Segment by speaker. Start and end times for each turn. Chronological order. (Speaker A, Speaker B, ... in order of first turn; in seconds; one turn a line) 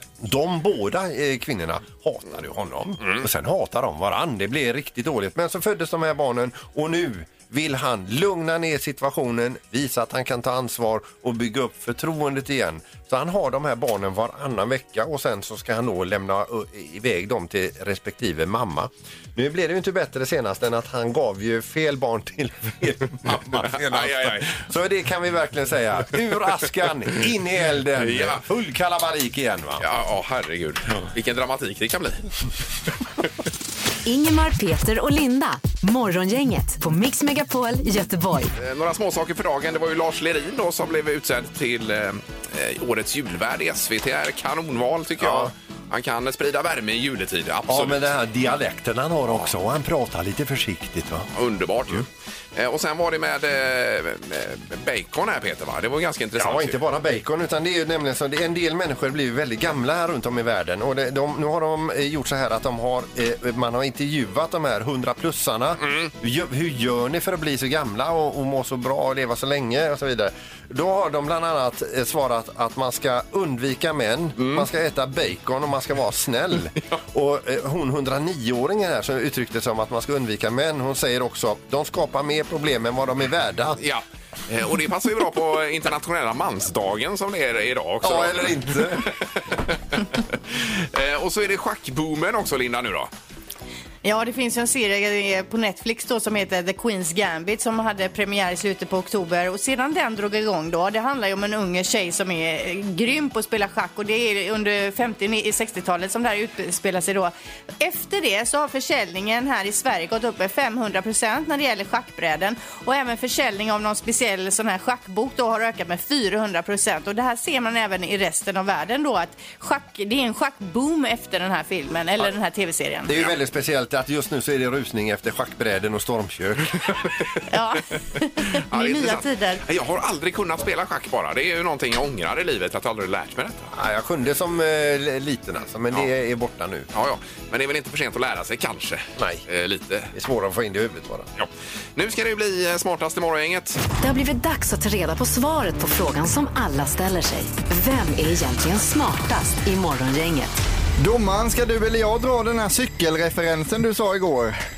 Speaker A: 0.2-29.9
Speaker B: 23.3-24.6
Speaker B: 28.0-28.4
Speaker B: 29.8-32.3
Speaker C: 34.0-38.5
Speaker B: 38.6-48.1
Speaker A: 45.2-45.5
Speaker A: 47.7-51.3
Speaker B: 51.3-56.8
Speaker A: 56.4-83.8
Speaker B: 65.8-66.1
Speaker B: 74.4-74.7
Speaker B: 83.8-93.1
Speaker A: 88.0-89.1
Speaker D: 94.0-123.1
Speaker A: 123.1-127.0
Speaker D: 127.5-129.6
Speaker B: 128.7-133.7
Speaker A: 133.7-136.9
Speaker B: 136.9-140.1
Speaker A: 139.2-139.4
Speaker A: 140.1-141.3
Speaker B: 141.4-143.8
Speaker C: 144.0-150.6
Speaker E: 151.0-154.6